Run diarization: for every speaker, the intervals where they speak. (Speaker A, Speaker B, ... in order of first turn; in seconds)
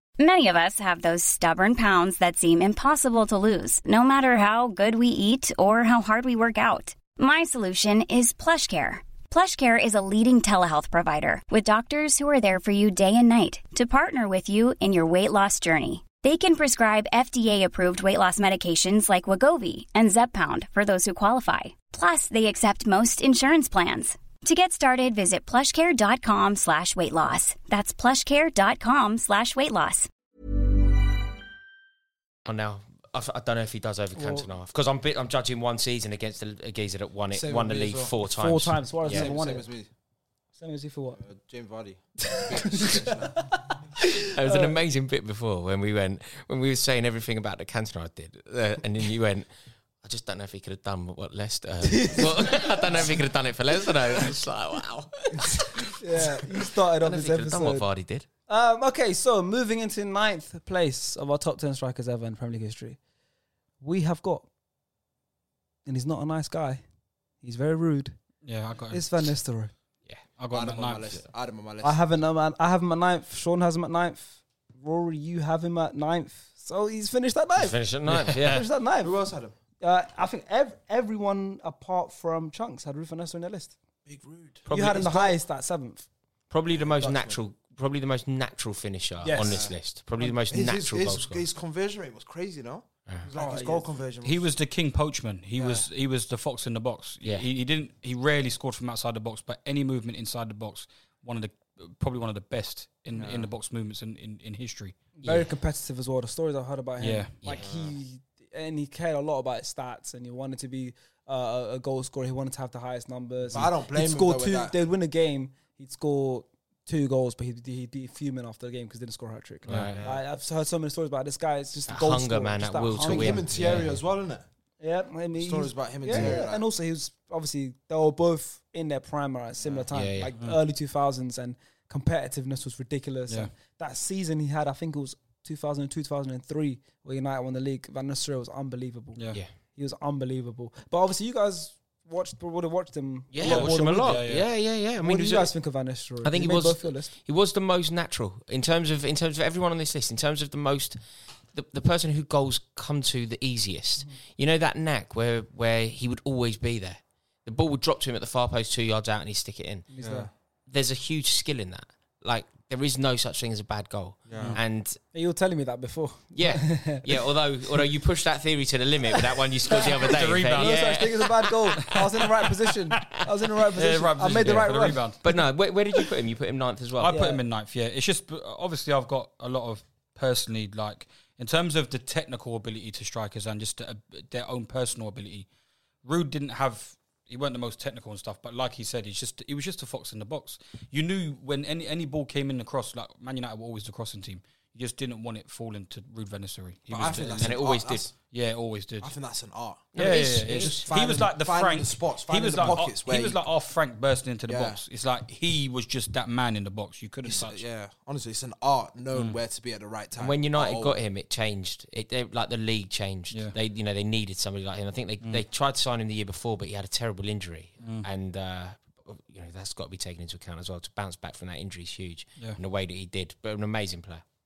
Speaker A: 0.2-30.1
Speaker B: 32.5-39.3, 44.2-49.5, 50.0-58.3, 77.6-78.4, 84.7-85.4, 86.5-91.4, 105.2-105.5, 119.7-120.0, 121.9-123.9, 129.9-130.3, 143.3-145.5, 146.2-151.0, 151.5-159.9, 160.7-165.0, 166.3-172.0, 175.2-177.2, 197.4-198.1, 199.9-200.9, 210.2-224.2
Speaker C: 34.2-34.5, 38.3-39.7, 40.6-41.2, 42.3-44.8, 51.8-53.0, 55.9-57.9, 58.5-63.0, 63.8-64.5, 65.9-66.8, 67.4-68.2, 68.9-69.7, 71.8-77.8, 78.3-79.1, 79.8-83.8, 84.7-86.1, 89.2-89.6, 93.3-93.9, 105.2-123.5, 124.8-139.2, 139.8-144.2, 145.0-147.1, 159.9-160.3, 165.1-167.2, 169.7-175.1, 177.1-177.4
Speaker D: 37.3-38.1, 39.1-39.9, 41.2-43.4, 70.5-72.0, 79.0-79.5, 84.1-84.6, 86.8-87.4, 89.3-94.5, 95.6-95.9, 103.1-103.5, 107.6-108.0, 113.5-114.7, 119.9-120.2, 123.0-124.5, 125.4-126.6, 129.6-129.9, 160.0-160.3, 164.3-164.6, 196.9-198.2, 199.0-203.4, 204.5-204.8, 207.2-211.0
Speaker E: 68.4-69.3, 70.4-71.2, 78.1-78.7, 94.2-105.0, 107.0-107.3, 119.7-120.0, 123.6-123.8, 139.2-139.4, 143.4-144.5, 170.0-171.3, 173.7-175.4, 177.0-185.5, 186.0-197.6, 198.3-199.1, 200.0-207.6, 217.8-218.1